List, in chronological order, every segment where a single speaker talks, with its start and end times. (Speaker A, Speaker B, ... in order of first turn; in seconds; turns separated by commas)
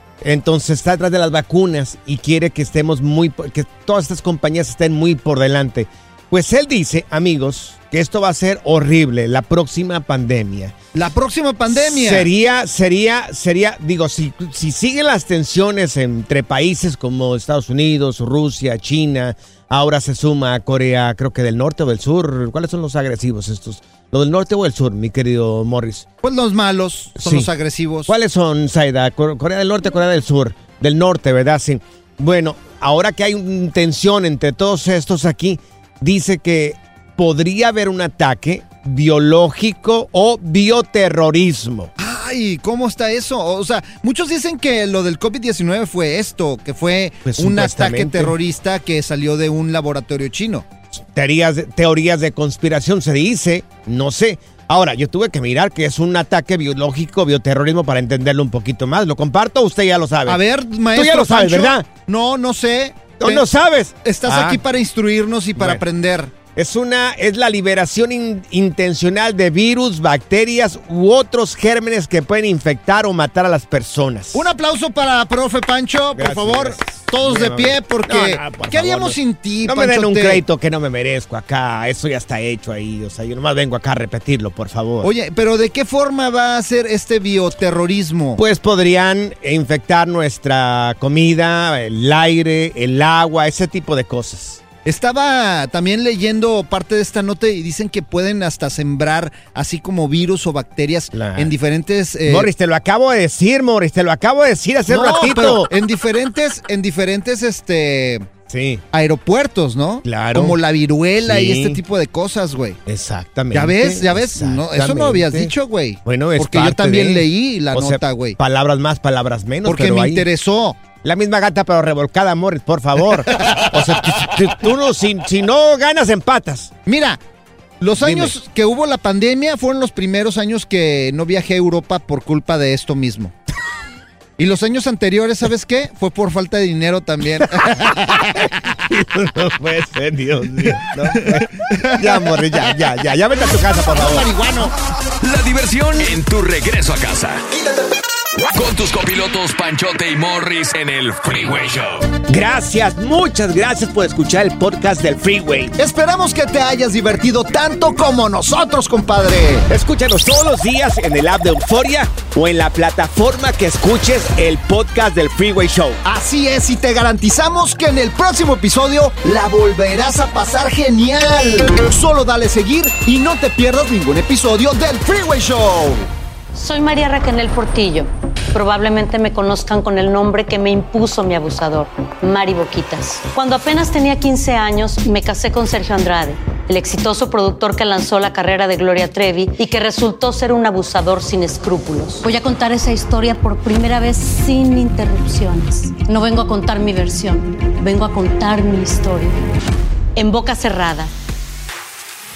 Speaker A: 0.2-10.8, Speaker B: 10.9-12.3, Speaker A: 11.7-26.1, Speaker B: 26.2-28.1, Speaker A: 27.2-27.5, Speaker A: 28.1-41.9, Speaker B: 42.0-50.7, Speaker A: 47.3-48.3, Speaker A: 51.0-60.4, Speaker B: 60.3-63.4, Speaker A: 60.9-61.9, Speaker A: 63.2-64.6, Speaker B: 64.0-66.3, Speaker A: 65.6-65.8, Speaker A: 66.5-74.5, Speaker B: 74.3-80.4, Speaker A: 76.1-85.1, Speaker B: 85.0-88.4, Speaker A: 88.4-94.6, Speaker B: 94.8-102.5, Speaker A: 101.1-101.5, Speaker A: 102.2-105.7, Speaker B: 104.9-108.3, Speaker A: 108.5-108.8, Speaker B: 108.9-112.8, Speaker A: 110.0-110.6, Speaker A: 111.2-111.8, Speaker A: 112.9-115.5, Speaker B: 113.5-118.4, Speaker A: 116.0-120.3, Speaker B: 119.6-120.8, Speaker A: 121.0-126.7, Speaker B: 126.8-127.2, Speaker B: 127.8-133.3, Speaker A: 128.0-128.3, Speaker B: 134.4-138.6, Speaker A: 138.9-144.3, Speaker B: 141.2-142.3, Speaker B: 143.9-144.7, Speaker C: 145.2-147.4, Speaker C: 148.5-152.2, Speaker A: 152.2-155.7, Speaker B: 155.8-159.7, Speaker A: 159.7-166.0, Speaker B: 166.0-176.1, Speaker D: 176.5-199.4, Speaker D: 200.2-201.1